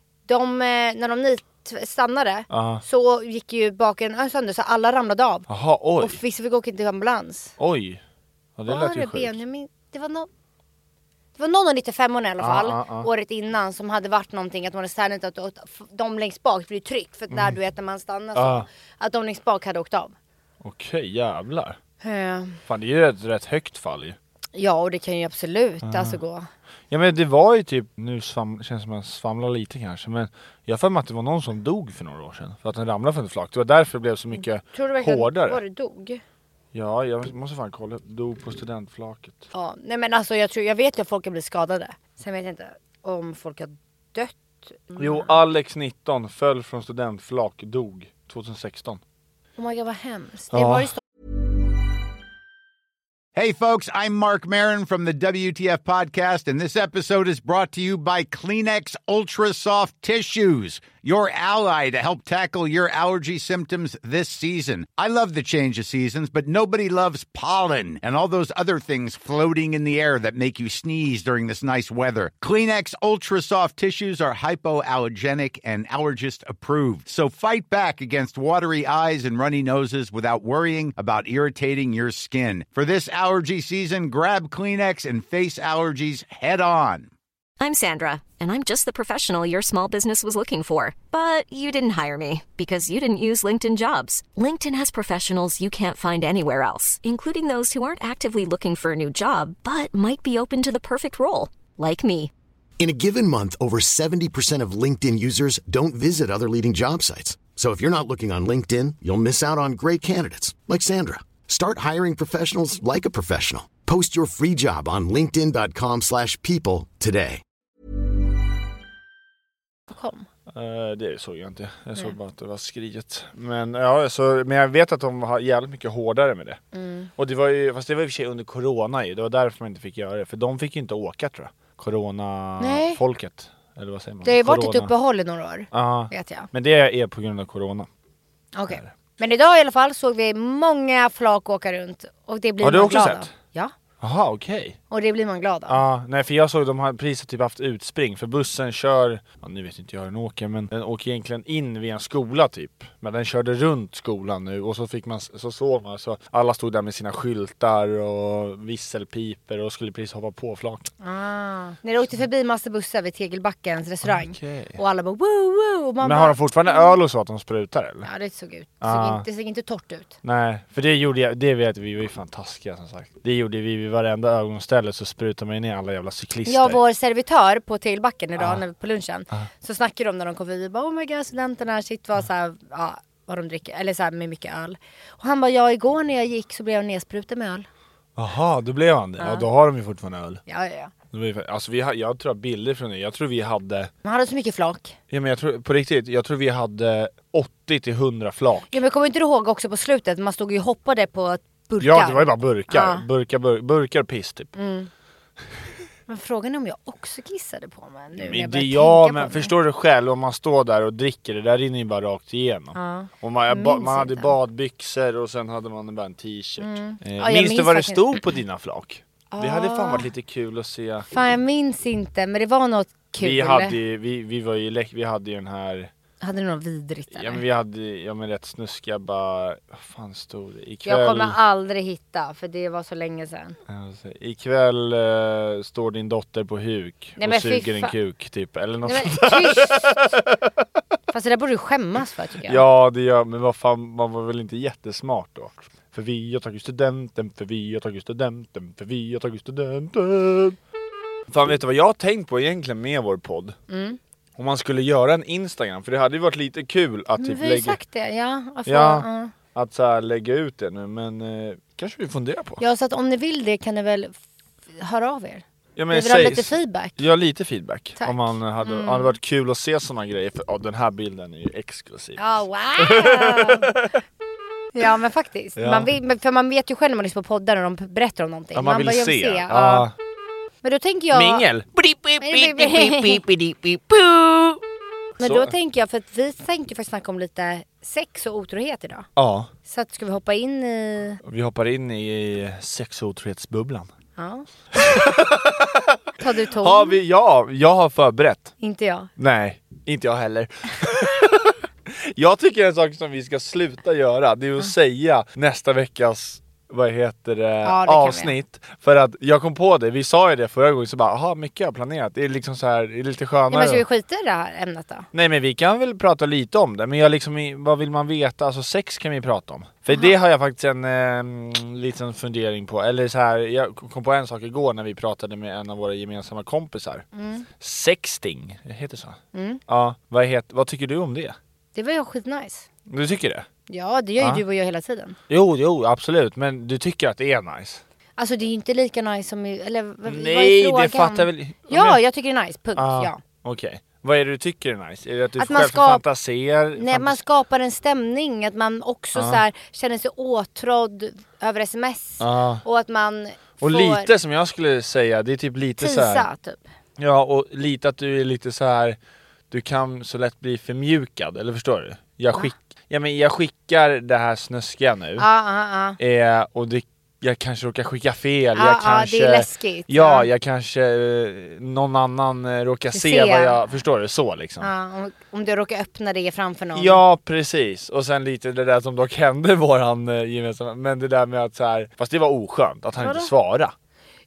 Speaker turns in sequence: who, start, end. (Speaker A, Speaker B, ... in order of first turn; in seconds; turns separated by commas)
Speaker A: 0.3-5.5, Speaker B: 2.5-2.8, Speaker B: 5.5-6.2, Speaker A: 6.0-7.5, Speaker B: 7.6-8.0, Speaker B: 8.6-9.4, Speaker A: 8.7-10.3, Speaker A: 11.3-20.1, Speaker B: 12.4-13.1, Speaker B: 18.3-18.7, Speaker B: 20.6-21.8, Speaker A: 22.0-22.6, Speaker B: 22.6-24.2, Speaker A: 24.5-26.5, Speaker B: 25.8-26.2, Speaker B: 26.9-35.6, Speaker A: 34.7-36.2, Speaker B: 36.7-39.5, Speaker A: 39.5-45.3, Speaker B: 45.0-49.0, Speaker A: 49.6-51.0, Speaker B: 50.5-50.9, Speaker C: 53.3-87.1, Speaker D: 87.6-102.3, Speaker E: 102.8-117.4, Speaker A: 119.9-120.3, Speaker B: 120.5-126.6, Speaker A: 126.7-127.1, Speaker B: 127.2-134.9, Speaker A: 132.6-133.0, Speaker A: 134.2-136.5, Speaker B: 135.7-137.9, Speaker A: 138.5-143.7, Speaker B: 142.6-143.3, Speaker B: 144.0-144.8, Speaker A: 144.9-145.8, Speaker B: 145.7-160.9, Speaker A: 161.0-166.9, Speaker B: 164.0-164.8, Speaker B: 166.0-168.1, Speaker A: 168.0-170.2, Speaker B: 168.8-169.2, Speaker B: 170.2-176.8, Speaker A: 176.4-187.7, Speaker B: 188.2-190.4, Speaker A: 189.2-189.5, Speaker A: 190.5-190.9, Speaker B: 191.1-193.9, Speaker A: 194.0-194.9, Speaker B: 195.1-198.8, Speaker A: 198.7-203.0, Speaker B: 201.8-204.5, Speaker A: 204.6-204.9, Speaker A: 206.1-209.5, Speaker B: 208.2-221.1, Speaker A: 212.7-214.3, Speaker A: 216.6-218.2, Speaker A: 219.3-220.1, Speaker A: 221.1-223.8, Speaker B: 223.2-225.9, Speaker A: 226.2-227.4, Speaker B: 227.1-231.4, Speaker A: 230.8-233.6, Speaker B: 233.7-240.5, Speaker A: 237.2-237.9, Speaker A: 238.8-240.0, Speaker A: 241.1-242.6, Speaker B: 242.4-250.6, Speaker B: 251.3-253.6, Speaker A: 253.7-254.0, Speaker B: 254.4-257.8, Speaker A: 257.2-259.3, Speaker B: 258.6-262.6, Speaker A: 262.6-264.2, Speaker A: 264.7-267.0, Speaker B: 265.8-273.9, Speaker A: 268.0-269.1, Speaker A: 272.2-273.7, Speaker A: 274.7-279.9, Speaker B: 275.6-275.9, Speaker B: 278.5-279.9, Speaker A: 280.6-281.4, Speaker B: 281.1-284.6, Speaker A: 282.2-283.2, Speaker B: 285.2-285.5, Speaker A: 285.2-289.1, Speaker B: 289.1-289.5, Speaker A: 289.6-291.2, Speaker B: 291.2-293.9, Speaker A: 294.2-294.4, Speaker B: 294.7-296.0, Speaker A: 296.2-297.0, Speaker B: 296.5-298.5, Speaker A: 298.6-299.1, Speaker B: 299.2-313.8, Speaker A: 307.6-308.3, Speaker A: 313.5-315.1, Speaker B: 315.1-327.1, Speaker A: 327.1-327.5, Speaker B: 327.6-331.4, Speaker A: 329.3-329.6, Speaker A: 331.7-332.7, Speaker B: 332.9-333.5, Speaker A: 333.7-335.2, Speaker B: 335.3-337.8, Speaker A: 338.2-343.2, Speaker B: 340.1-342.0, Speaker B: 342.8-347.2, Speaker A: 345.4-346.0, Speaker A: 346.8-354.1, Speaker B: 349.1-349.4, Speaker B: 352.2-352.6, Speaker B: 353.6-356.3, Speaker A: 355.8-356.7, Speaker B: 357.0-359.0, Speaker B: 359.5-365.3, Speaker A: 365.2-366.0, Speaker B: 366.0-374.7, Speaker A: 368.5-370.3, Speaker A: 372.9-373.6, Speaker A: 374.6-377.0, Speaker B: 376.7-383.7, Speaker A: 383.0-383.3